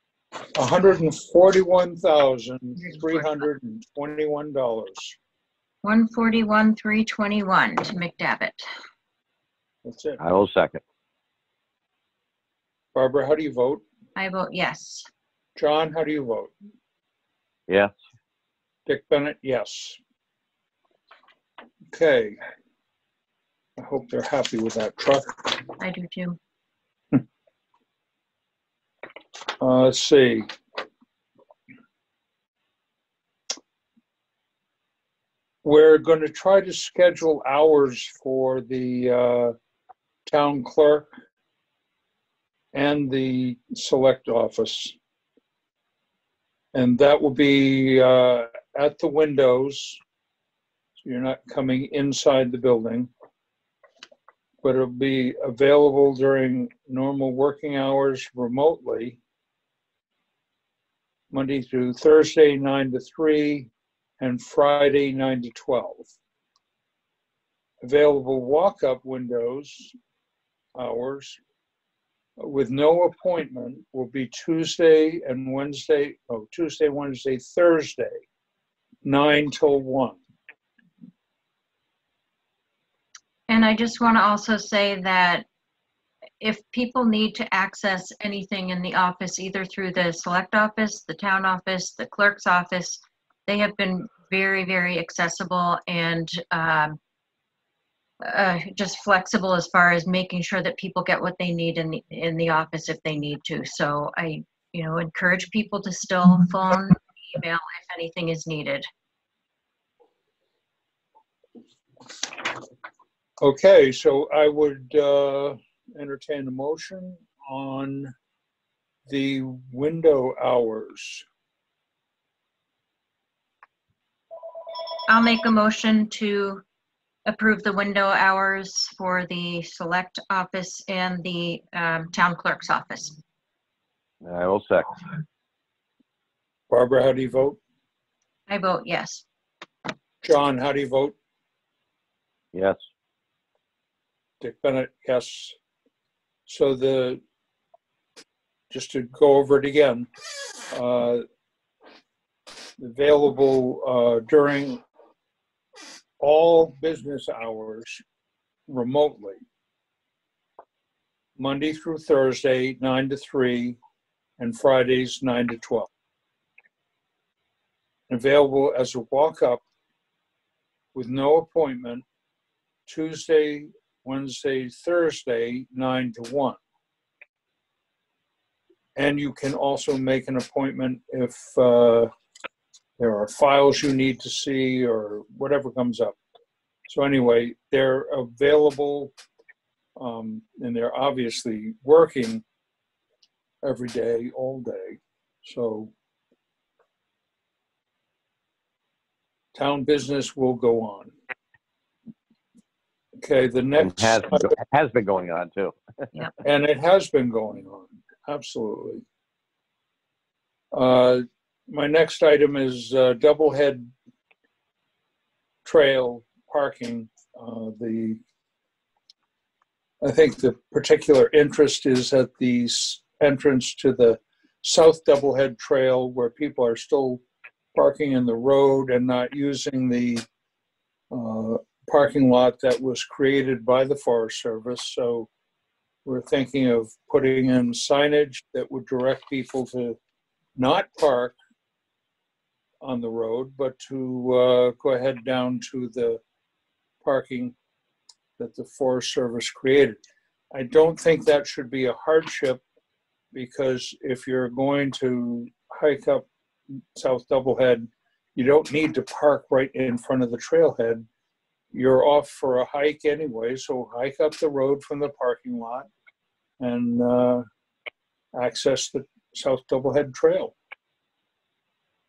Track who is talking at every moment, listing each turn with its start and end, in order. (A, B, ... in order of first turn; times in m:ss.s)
0:00.5-0:05.2 A
0:05.8-0:08.7 B
0:09.8-0:10.2 A
0:10.2-0:10.8 C
0:12.9-0:13.8 A
0:14.2-0:15.1 B
0:15.6-0:16.5 A
0:17.7-0:17.9 C
0:18.9-0:20.0 A
0:21.9-0:22.4 A
0:23.8-0:25.6 A
0:25.8-0:26.4 B
0:29.6-0:30.5 A
0:35.6-0:39.5 A
0:40.2-0:41.1 A
0:42.7-0:44.9 A
0:46.7-0:50.0 A
0:51.0-0:53.1 A
0:54.6-0:59.2 A
1:01.3-1:06.1 A
1:07.8-1:09.9 A
1:10.7-1:11.4 A
1:12.4-1:18.2 A
1:19.0-1:20.2 A
1:23.5-1:25.4 B
1:26.4-1:37.0 B
1:38.2-1:48.9 B
1:53.4-1:58.1 A
1:59.1-2:01.2 A
2:05.1-2:06.6 B
2:07.3-2:13.2 B
2:14.2-2:15.0 C
2:16.7-2:17.6 A
2:18.5-2:19.2 B
2:20.2-2:21.1 A
2:22.5-2:22.8 C
2:24.4-2:25.6 A
2:26.5-2:27.2 A
2:28.7-2:30.1 A
2:30.7-2:31.2 A
2:32.8-2:34.8 A
2:36.2-2:38.0 A
2:38.7-2:39.4 A
2:41.4-2:43.8 A
2:44.4-2:45.9 A
2:48.1-2:49.6 A
2:50.9-2:52.0 A
2:52.9-2:56.6 A
2:59.0-3:02.1 A
3:03.0-3:06.2 A
3:06.9-3:09.1 A
3:10.0-3:12.4 A
3:13.6-3:15.9 A
3:19.5-3:21.1 A
3:23.2-3:24.6 A
3:23.8-3:25.8 C
3:26.4-3:29.0 A
3:30.7-3:33.9 A
3:35.6-3:38.2 A
3:40.0-3:47.2 A
3:47.7-3:50.2 A
3:51.1-3:55.3 A
3:56.0-4:00.0 A
4:00.6-4:01.4 A
4:02.8-4:06.2 A
4:07.0-4:07.5 A
4:08.4-4:10.0 A
4:10.5-4:12.6 A
4:13.3-4:16.2 A
4:16.9-4:21.0 A
4:21.7-4:25.9 A
4:26.6-4:27.4 A
4:28.3-4:30.5 A